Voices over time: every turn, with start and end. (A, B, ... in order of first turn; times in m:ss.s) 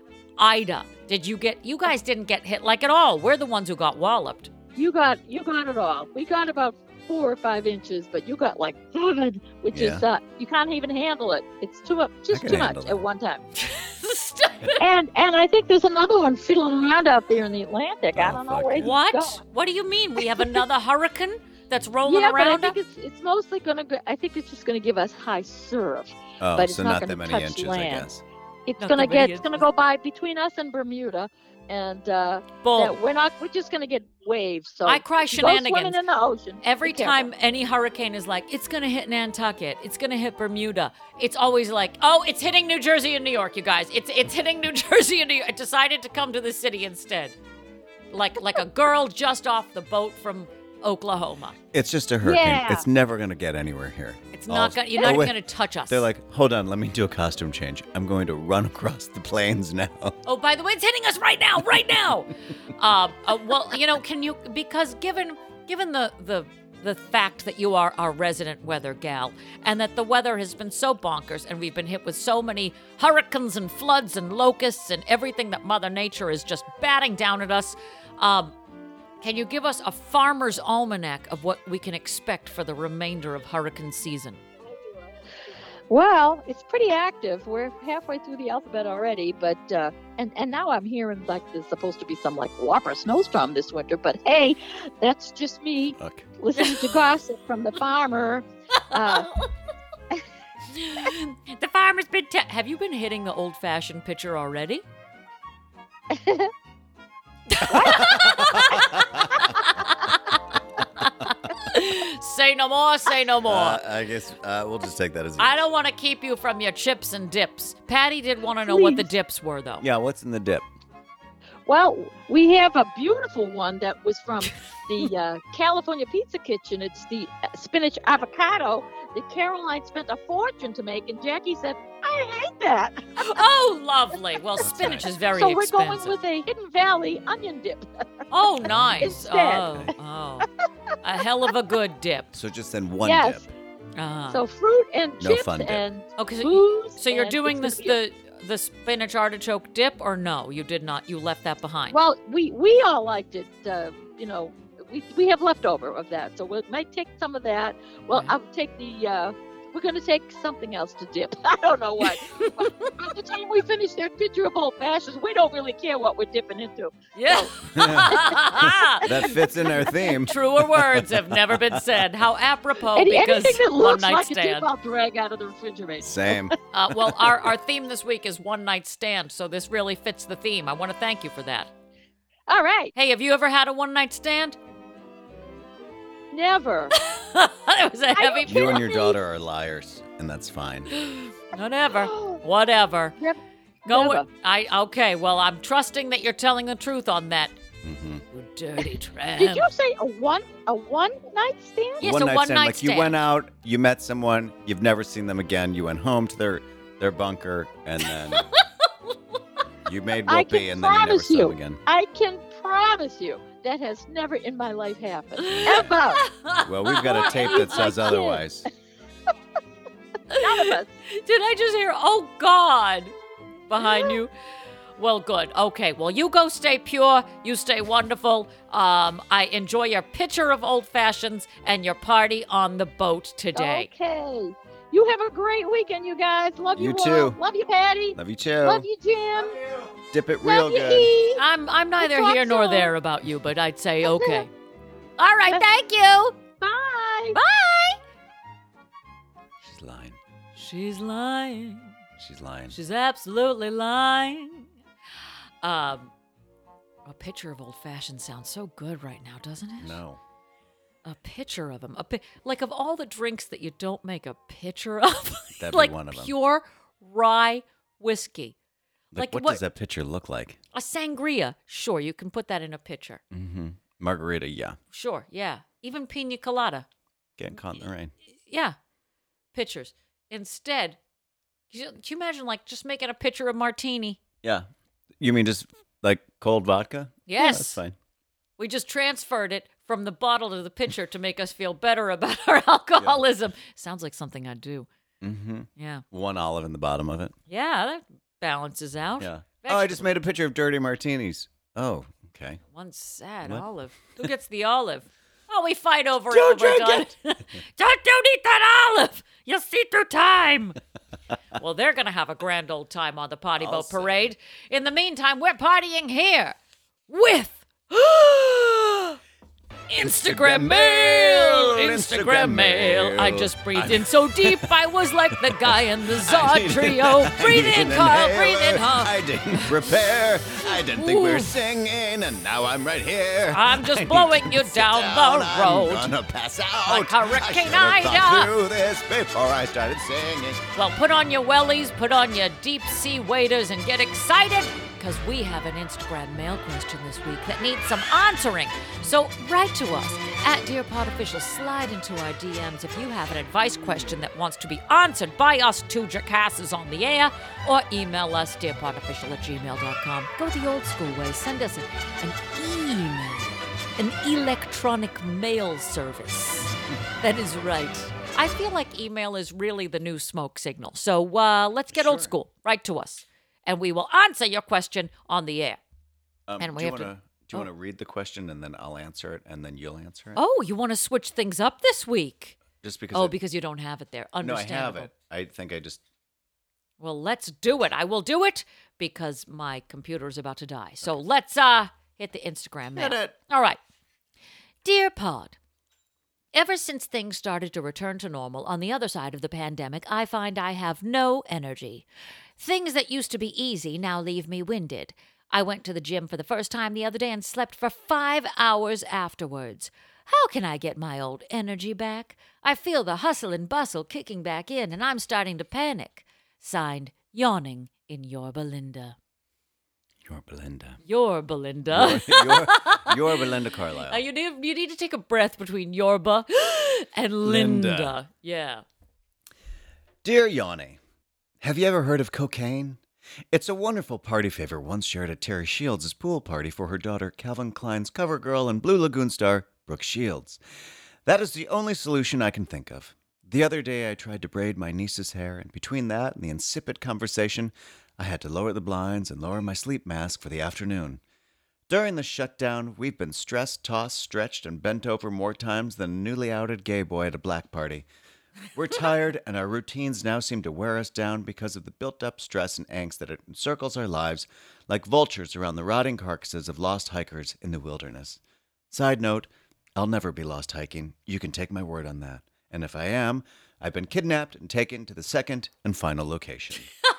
0:00.4-0:04.5 A
0:04.8-0:13.4 B
0:09.7-0:10.0 C
0:12.3-0:13.0 C
0:13.6-0:14.8 A
0:14.8-0:19.4 B
0:18.1-0:18.9 C
0:18.8-0:22.8 A
0:20.2-0:20.6 B
0:22.0-0:28.1 B
0:26.4-0:28.2 C
0:28.6-0:37.3 B
0:28.8-0:29.6 A
0:32.6-0:33.0 A
0:34.9-0:36.0 A
0:36.6-0:47.4 A
0:48.1-0:51.6 A
0:51.7-1:00.2 C
0:52.2-0:52.9 B
0:54.3-0:56.1 A
1:00.2-1:18.6 A
1:19.2-1:24.4 A
1:25.9-1:39.3 B
1:36.0-1:36.3 C
1:36.6-1:37.0 A
1:38.9-1:39.3 A
1:40.7-1:44.8 A
1:46.1-1:46.5 B
1:47.5-1:53.8 A
1:47.7-1:48.1 B
1:47.7-1:49.5 C
1:53.4-1:55.6 C
1:55.4-1:59.9 A
1:58.6-1:59.1 B
1:59.8-2:00.7 C
2:01.6-2:13.4 B
2:13.2-2:16.2 A
2:14.6-2:15.0 C
2:15.3-2:17.9 B
2:18.3-2:20.5 A
2:18.7-2:19.9 C
2:19.0-2:19.8 B
2:21.0-2:22.3 A
2:22.3-2:23.4 C
2:23.0-2:23.4 B
2:24.0-2:24.4 A
2:24.3-2:28.0 B
2:25.2-2:25.8 C
2:26.2-2:32.0 A
2:31.9-2:48.7 B
2:42.0-2:43.0 A
2:47.1-2:54.7 A
2:47.7-2:52.0 C
2:49.2-2:49.9 B
2:52.9-2:56.5 B
2:56.0-2:56.6 C
2:56.7-3:01.7 A
2:57.0-2:57.4 C
3:02.5-3:02.9 B
3:03.0-3:04.6 A
3:06.3-3:06.9 B
3:07.0-3:08.9 A
3:08.1-3:09.1 B
3:08.4-3:10.9 C
3:10.9-3:13.2 A
3:11.9-3:12.4 B
3:13.2-3:14.3 B
3:13.9-3:17.6 A
3:17.8-3:18.2 C
3:18.3-3:19.7 A
3:19.4-3:22.1 B
3:22.0-3:23.2 A
3:22.0-3:28.5 C
3:28.3-3:28.9 A
3:29.8-3:31.8 C
3:30.3-3:36.3 B
3:35.4-3:37.9 A
3:35.5-3:35.9 C
3:36.6-3:38.7 C
3:37.1-3:38.4 B
3:40.3-3:43.1 A
3:40.4-3:40.9 B
3:43.7-3:44.3 A
3:43.8-3:44.1 B
3:45.0-3:53.9 A
3:53.6-3:59.6 B
3:56.8-3:57.4 C
3:58.2-3:58.9 C
3:59.5-4:01.1 C
4:00.4-4:01.4 B
4:01.4-4:04.5 A
4:02.0-4:02.9 B
4:04.0-4:04.5 B
4:05.2-4:06.4 A
4:06.6-4:07.4 B
4:07.3-4:08.0 A
4:09.6-4:10.2 C
4:10.6-4:12.0 A
4:12.2-4:12.8 C
4:12.7-4:14.7 A
4:15.6-4:16.1 A
4:17.0-4:20.0 A
4:19.8-4:20.2 C
4:21.0-4:28.6 A
4:25.6-4:26.3 C
4:29.1-4:30.6 C
4:29.1-4:29.6 A
4:30.7-4:33.2 A
4:33.3-4:34.8 C
4:34.9-4:36.9 A
4:37.4-4:38.1 C
4:38.5-4:38.8 A
4:39.5-4:41.0 A
4:41.7-4:44.2 A
4:44.4-4:44.7 C
4:45.2-4:48.0 C
4:47.3-4:47.8 A
4:48.6-4:54.9 A
4:55.2-4:57.3 C
4:55.8-4:56.0 A
4:57.5-5:00.1 A
4:59.2-5:02.6 C
5:02.7-5:10.8 A
5:06.3-5:07.1 C
5:11.6-5:16.6 A
5:13.6-5:14.3 C
5:17.1-5:19.2 A
5:19.9-5:29.7 A
5:20.0-5:24.7 C
5:25.4-5:40.6 C
5:30.6-5:31.5 A
5:33.5-5:36.1 A
5:36.9-5:38.5 A
5:40.7-6:15.8 A
6:11.9-6:12.3 C
6:16.5-6:20.4 C
6:16.6-6:17.7 A
6:20.3-6:22.6 A
6:22.8-6:23.4 C
6:23.1-6:25.1 A
6:24.4-6:26.0 C
6:27.0-6:33.8 A
6:33.0-6:33.4 C
6:34.8-6:35.6 A
6:36.5-6:42.1 A
6:42.6-6:59.2 A
7:00.2-7:01.0 C
7:01.0-7:03.5 A
7:01.9-7:04.2 C
7:04.0-7:08.8 A
7:07.4-7:08.1 C
7:10.2-7:11.0 C
7:11.6-7:20.6 C
7:21.2-7:31.2 C
7:31.9-7:38.1 C
7:38.7-7:56.9 C